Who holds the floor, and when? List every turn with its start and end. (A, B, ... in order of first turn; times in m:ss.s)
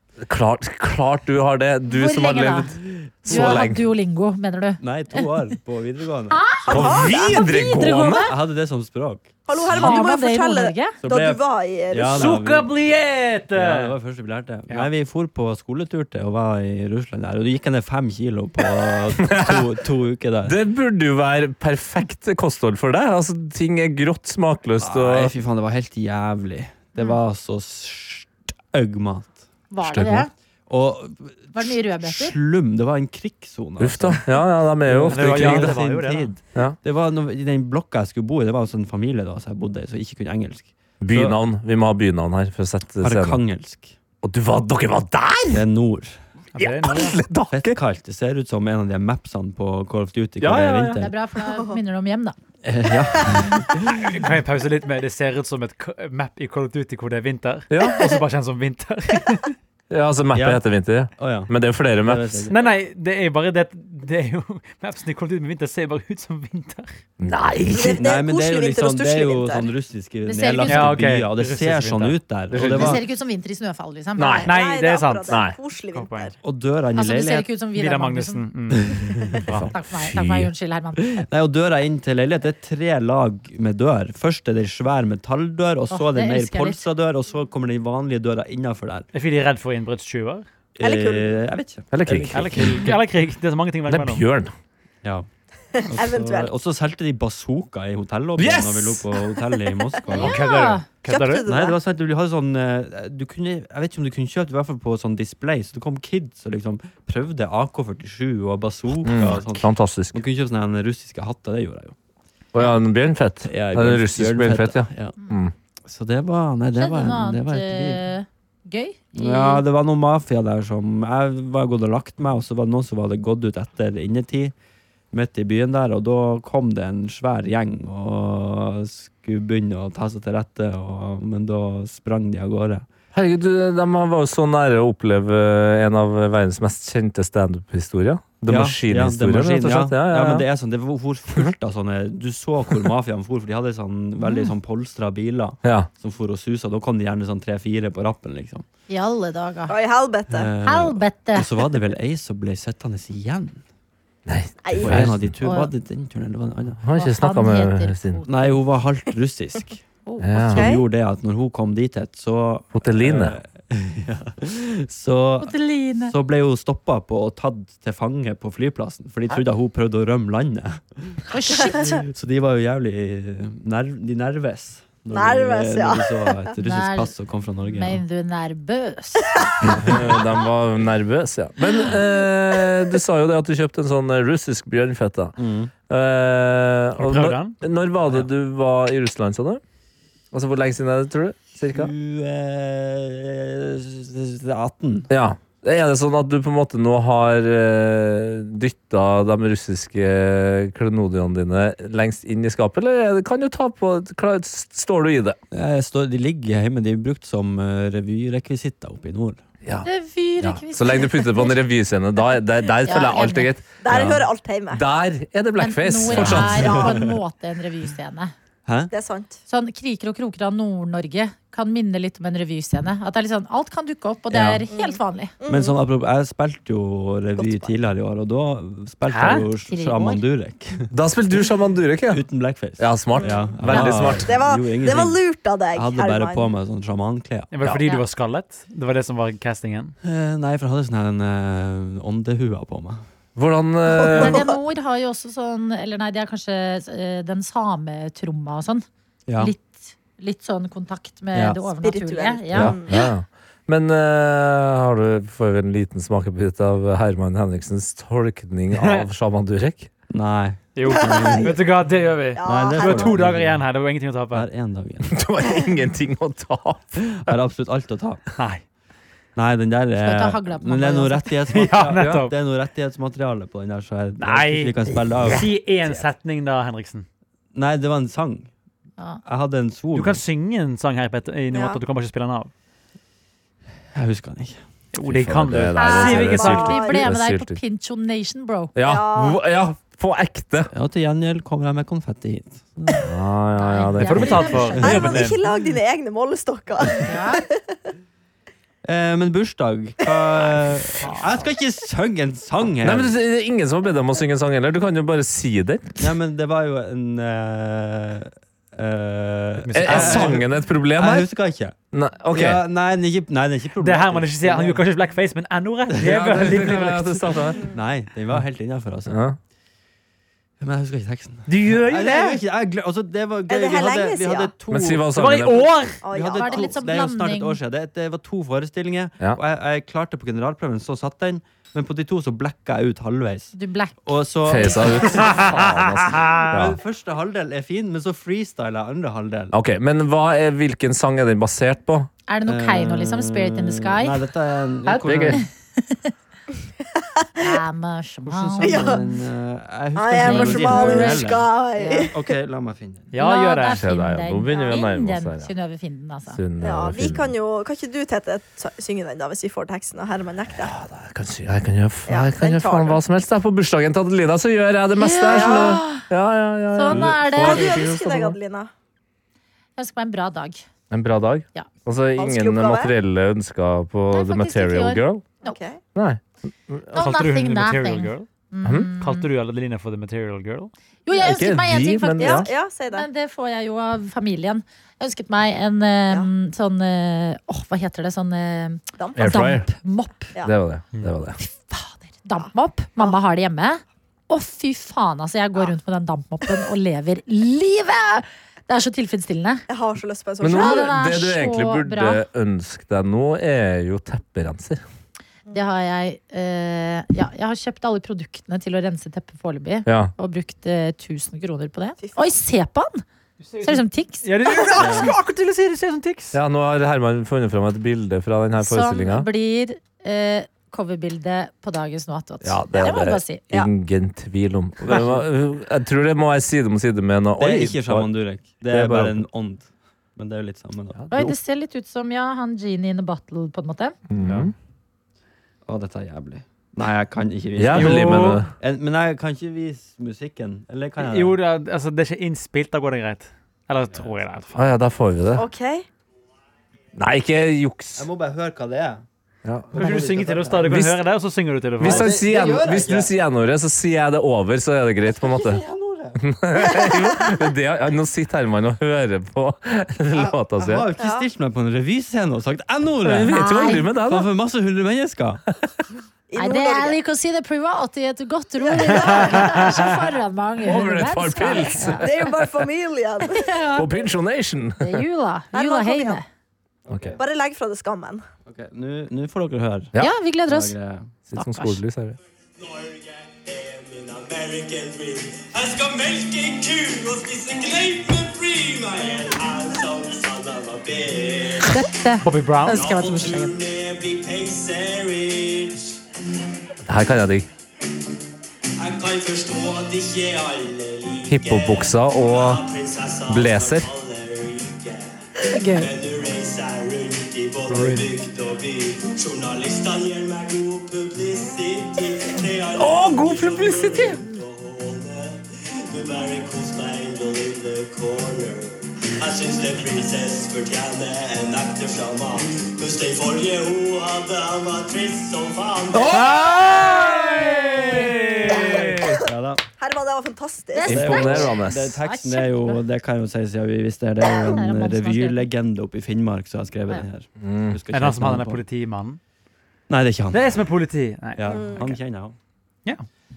0:00.2-0:03.8 A
0:01.9-0:02.7 B
0:03.1-0:03.6 C
0:03.2-0:05.3 B
0:04.8-0:07.0 C
0:06.3-0:08.3 B
0:06.6-0:07.4 D
0:06.7-0:08.3 A
0:08.2-0:10.0 C
0:09.5-0:12.4 D
0:09.7-0:11.0 B
0:11.0-0:12.7 C
0:12.1-0:13.9 E
0:13.5-0:20.6 C
0:19.2-0:19.6 A
0:20.4-0:25.3 A
0:24.8-0:29.4 C
0:29.7-0:30.3 B
0:29.8-0:30.3 A
0:30.7-0:34.3 C
0:31.5-0:32.3 B
0:33.8-0:35.8 A
0:34.9-0:41.4 C
0:35.1-0:36.3 E
0:41.0-0:43.4 A
0:43.0-0:43.9 C
0:44.2-0:45.6 A
0:45.5-0:46.2 C
0:46.5-0:47.2 E
0:46.6-0:47.8 A
0:47.5-0:51.1 C
0:50.4-0:51.1 A
0:51.0-0:52.4 B
0:51.4-0:51.8 D
0:52.6-0:54.1 C
0:53.9-0:59.5 E
0:57.7-0:58.0 A
0:59.9-1:02.5 A
1:00.3-1:00.6 C
1:01.2-1:01.5 C
1:02.0-1:02.6 C
1:02.5-1:07.0 E
1:07.2-1:08.1 A
1:07.7-1:09.7 D
1:07.9-1:13.0 C
1:10.2-1:11.0 B
1:10.6-1:12.2 E
1:12.5-1:13.0 A
1:12.7-1:14.5 B
1:14.2-1:14.5 A
1:14.4-1:16.3 D
1:14.4-1:16.3 E
1:15.3-1:15.5 A
1:16.4-1:17.5 C
1:17.0-1:18.4 B
1:17.7-1:19.6 E
1:18.8-1:19.4 C
1:19.5-1:20.5 A
1:19.7-1:21.2 B
1:21.0-1:29.0 C
1:25.9-1:26.8 B
1:29.1-1:30.4 E
1:30.8-1:32.9 C
1:30.8-1:31.4 D
1:31.9-1:32.9 A
1:32.3-1:34.2 E
1:33.9-1:34.5 A
1:35.8-1:36.5 D
1:35.8-1:40.4 C
1:38.4-1:39.1 A
1:40.1-1:40.8 B
1:40.2-1:41.5 E
1:41.0-1:41.8 D
1:41.5-1:51.9 C
1:49.0-1:50.2 A
1:52.5-1:55.5 A
1:53.4-1:55.2 C
1:55.9-1:58.0 C
1:56.7-1:59.6 B
1:59.1-2:04.5 C
2:05.1-2:12.8 C
2:13.1-2:20.4 A
2:18.4-2:28.6 C
2:25.6-2:25.9 A
2:28.9-2:29.8 B
2:29.7-2:30.5 D
2:30.3-2:33.6 C
2:30.6-2:31.5 B
2:34.3-2:35.3 A
2:34.6-2:35.1 D
2:34.8-2:36.8 C
2:35.4-2:35.7 B
2:36.8-2:38.2 A
2:37.0-2:38.6 B
2:38.2-2:39.8 C
2:40.0-2:40.3 B
2:40.2-2:40.7 A
2:40.4-2:58.0 C
2:40.5-2:40.8 D
2:42.8-2:43.4 A
2:45.4-2:46.1 B
2:51.3-2:52.0 B
2:55.1-2:56.3 D
2:56.6-2:59.7 B
2:59.6-3:00.2 C
2:59.8-3:05.3 A
3:05.4-3:05.7 C
3:05.9-3:09.6 A
3:07.0-3:07.6 E
3:10.3-3:11.9 A
3:11.7-3:15.1 C
3:15.1-3:25.4 A
3:25.5-3:29.4 C
3:29.8-3:31.5 B
3:30.4-3:36.8 A
3:32.9-3:33.5 B
3:33.8-3:34.8 D
3:35.6-3:38.3 B
3:36.2-3:37.0 C
3:36.4-3:37.0 D
3:38.6-3:38.9 C
3:38.9-3:39.4 D
3:39.5-3:45.3 B
3:44.3-3:44.6 A
3:44.7-3:45.8 D
3:45.5-3:50.9 C
3:47.4-3:47.7 D
3:49.1-3:49.5 E
3:49.7-3:50.2 B
3:50.9-3:52.2 A
3:52.1-3:55.2 C
3:52.8-3:54.3 A
3:53.1-3:56.5 D
3:55.7-3:57.5 C
3:57.5-3:59.9 E
4:00.0-4:03.0 C
4:03.4-4:04.4 A
4:03.9-4:04.5 D
4:04.1-4:12.8 B
4:09.3-4:09.5 C
4:11.3-4:11.6 C
4:11.8-4:13.1 D
4:12.5-4:12.8 C
4:12.8-4:19.9 A
4:18.8-4:19.0 E
4:20.1-4:21.6 C
4:20.8-4:24.5 E
4:20.9-4:21.5 D
4:22.4-4:23.2 D
4:22.4-4:23.6 C
4:24.3-4:25.1 C
4:25.1-4:27.1 A
4:27.0-4:28.2 C
4:28.4-4:28.6 E
4:29.4-4:35.5 C
4:30.0-4:31.4 B
4:31.5-4:32.3 E
4:32.0-4:32.2 A
4:34.2-4:37.0 E
4:37.5-4:38.5 C
4:39.2-4:40.2 C
4:39.9-4:42.5 E
4:41.5-4:41.8 D
4:43.9-4:44.6 C
4:44.9-4:46.6 E
4:45.0-4:47.6 A
4:45.8-4:48.7 B
4:45.8-4:47.1 D
4:48.8-4:50.7 A
4:48.8-4:49.4 D
4:50.7-4:53.0 C
4:53.0-4:55.0 A
4:53.6-4:55.1 B
4:54.0-4:55.4 E
4:54.8-4:55.2 C
4:54.8-4:57.8 D
4:57.0-4:57.4 B
4:58.8-5:03.1 C
5:02.8-5:06.1 A
5:06.0-5:11.8 C
5:09.6-5:10.4 E
5:09.8-5:11.3 A
5:11.9-5:12.6 A
5:12.3-5:14.8 C
5:13.8-5:17.5 E
5:15.9-5:16.8 C
5:16.0-5:17.6 A
5:17.7-5:19.2 C
5:19.1-5:19.4 A
5:20.6-5:25.1 C
5:21.5-5:22.4 E
5:23.5-5:24.5 D
5:24.7-5:25.8 A
5:25.1-5:26.0 E
5:26.0-5:26.8 D
5:26.1-5:35.4 C
5:26.3-5:27.6 B
5:33.5-5:35.0 B
5:34.4-5:36.8 A
5:35.1-5:36.5 E
5:36.5-5:39.5 C
5:39.5-5:42.1 A
5:42.3-5:44.2 B
5:42.4-5:45.4 C
5:44.9-5:46.1 B
5:45.0-5:45.4 A
5:47.0-5:47.6 D
5:47.4-5:49.0 B
5:48.2-5:51.5 C
5:48.6-5:49.0 D
5:49.9-5:52.2 D
5:50.2-5:52.1 B
5:52.0-5:53.1 C
5:53.1-5:53.8 E
5:53.2-5:56.4 B
5:53.7-5:55.5 A
5:56.3-5:57.3 A
5:56.6-6:00.8 D
6:00.5-6:08.4 A
6:02.1-6:03.0 D
6:05.0-6:06.0 B
6:05.3-6:05.8 D
6:06.7-6:07.7 B
6:06.9-6:08.7 D
6:09.8-6:10.6 B
6:10.9-6:15.2 A
6:12.2-6:12.9 D
6:14.1-6:15.6 B
6:15.4-6:15.8 D
6:15.9-6:16.8 A
6:16.9-6:18.3 E
6:16.9-6:19.3 B
6:18.6-6:18.9 A
6:19.0-6:20.7 E
6:21.0-6:30.3 B
6:21.2-6:22.5 A
6:22.2-6:23.1 D
6:29.0-6:29.3 D
6:29.1-6:29.7 A
6:30.4-6:31.4 A
6:31.7-6:39.6 B
6:32.4-6:33.2 D
6:39.7-6:40.9 D
6:40.4-6:44.8 A
6:40.4-6:42.2 B
6:45.5-6:53.0 B
6:49.9-6:50.1 A
6:52.0-6:52.4 D
6:53.4-6:56.4 E
6:53.6-6:54.3 B
6:54.7-6:55.1 C
6:56.3-6:59.3 A
6:58.6-7:03.4 B
7:02.4-7:08.1 A
7:04.8-7:05.2 C
7:07.4-7:11.2 C
7:08.6-7:09.2 A
7:10.9-7:11.3 A
7:11.1-7:14.0 B
7:14.1-7:14.5 A
7:14.2-7:14.5 C
7:15.6-7:21.4 C
7:17.6-7:18.5 A
7:17.7-7:18.4 E
7:21.0-7:24.6 E
7:24.5-7:25.5 A
7:25.3-7:25.9 D
7:27.0-7:28.0 A
7:28.0-7:29.0 C
7:29.4-7:29.9 A
7:29.7-7:30.8 C
7:29.8-7:32.1 E
7:30.6-7:31.0 A
7:31.8-7:33.1 C
7:31.8-7:35.6 A
7:35.1-7:36.2 C
7:36.2-7:40.9 A
7:40.2-7:45.4 C
7:41.0-7:41.3 D
7:43.0-7:44.3 A
7:43.3-7:43.9 B
7:46.3-7:47.0 D
7:46.4-7:52.0 B
7:48.6-7:50.0 D
7:50.6-7:52.7 A
7:52.0-7:53.5 D
7:53.3-7:53.9 B
7:53.8-7:55.0 A
7:54.8-7:56.2 B
7:55.5-7:56.2 D
7:56.9-7:57.2 C
7:56.9-7:57.2 A
7:57.2-7:58.2 D
7:58.4-7:59.9 C
8:00.0-8:00.8 B
8:00.4-8:01.1 C
8:01.3-8:02.2 A
8:01.3-8:01.8 B
8:02.6-8:11.7 F
8:11.6-8:13.5 B
8:12.2-8:13.0 E
8:12.8-8:16.0 F
8:16.8-8:17.5 A
8:18.8-8:25.2 F
8:21.2-8:22.6 A
8:23.3-8:23.9 A
8:25.5-8:25.9 B
8:25.8-8:46.2 F
8:27.7-8:28.1 E
8:32.8-8:34.2 A
8:45.9-8:49.2 A
8:47.6-8:49.6 C
8:49.8-8:51.2 D
8:50.7-8:52.8 B
8:50.9-8:52.0 A
8:50.9-8:58.6 C
8:54.5-8:55.5 B
8:57.4-8:57.8 A
8:57.9-8:59.2 E
8:59.9-9:00.5 C
9:00.3-9:01.4 E
9:01.3-9:02.3 C
9:01.5-9:02.0 D